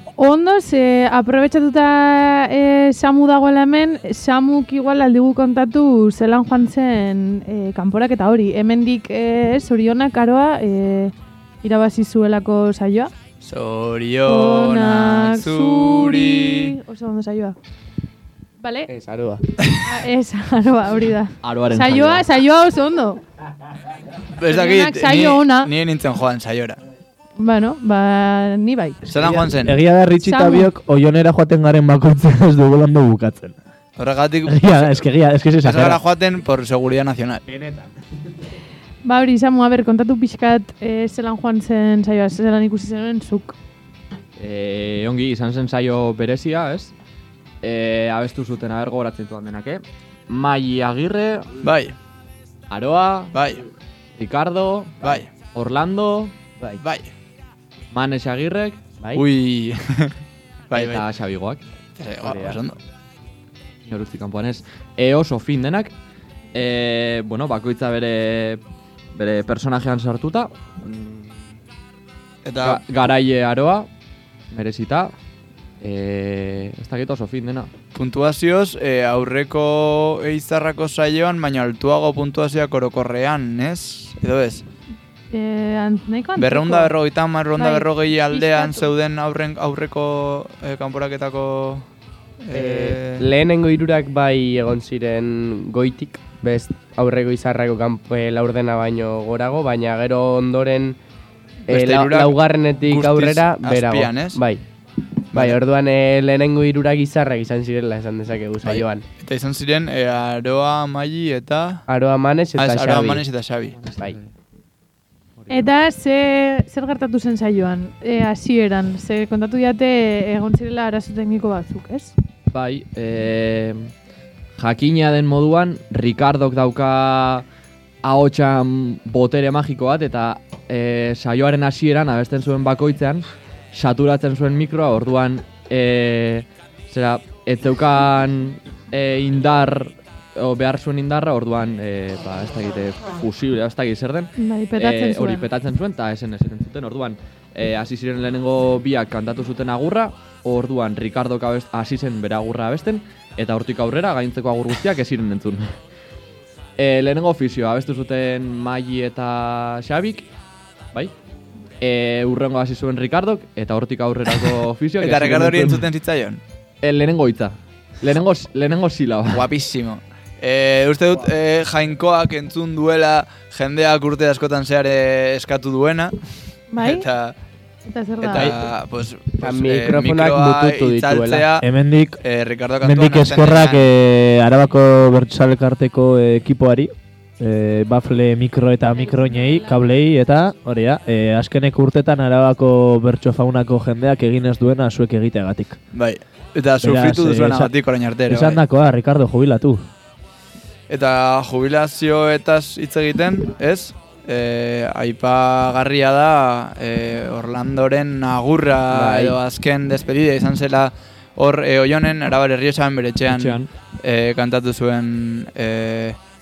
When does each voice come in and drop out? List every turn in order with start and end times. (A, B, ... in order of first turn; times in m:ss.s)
0:00.2-0:13.1 A
0:13.4-0:16.7 B
0:14.2-0:17.6 A
0:18.6-0:18.9 A
0:18.9-0:19.4 C
0:19.8-0:23.2 A
0:21.4-0:22.2 D
0:24.4-0:26.8 B
0:24.5-0:25.7 A
0:27.4-0:29.0 A
0:29.0-0:29.8 B
0:29.1-0:33.6 E
0:30.2-0:30.7 A
0:34.0-0:35.0 B
0:34.5-0:36.0 E
0:35.6-0:37.4 B
0:37.5-0:37.9 E
0:39.0-0:43.5 A
0:44.4-0:46.9 D
0:47.6-0:51.5 D
0:51.6-0:51.9 B
0:52.7-0:53.3 D
0:53.3-0:53.6 B
0:54.2-0:56.3 D
0:55.0-0:55.3 B
0:56.8-0:57.1 B
0:57.9-0:58.8 D
0:59.1-1:00.1 B
1:00.7-1:01.0 B
1:00.7-1:01.6 D
1:02.0-1:02.8 B
1:02.2-1:02.6 C
1:03.8-1:05.9 D
1:06.5-1:08.6 D
1:09.1-1:11.6 D
1:12.4-1:12.8 B
1:12.6-1:13.9 D
1:14.5-1:15.1 D
1:15.8-1:17.7 D
1:17.9-1:24.6 B
1:25.3-1:26.9 A
1:26.4-1:31.8 B
1:27.6-1:28.9 A
1:32.4-1:33.3 B
1:32.5-1:41.0 C
1:41.7-1:44.4 B
1:41.7-1:44.6 C
1:45.3-1:45.6 B
1:45.3-1:49.0 C
1:48.6-1:51.8 B
1:51.9-1:53.2 C
1:52.5-1:53.8 B
1:53.8-1:54.3 D
1:55.4-1:55.7 D
1:55.5-2:02.1 A
2:02.5-2:03.9 D
2:04.6-2:07.4 D
2:08.0-2:35.8 D
2:24.4-2:25.4 A
2:36.8-2:40.3 D
2:41.8-2:45.8 D
2:45.0-2:46.4 B
2:46.8-2:49.5 D
2:49.3-2:56.1 B
2:56.7-2:57.1 A
2:56.8-2:57.3 B
2:57.9-2:58.6 A
2:58.2-3:01.7 B
2:59.4-3:01.5 C
3:01.6-3:02.2 E
3:02.2-3:03.9 B
3:02.8-3:15.8 E
3:08.9-3:10.4 A
3:15.9-3:18.6 B
3:16.8-3:17.7 E
3:18.3-3:19.8 E
3:20.9-3:36.2 B
3:28.9-3:29.4 C
3:33.3-3:33.7 D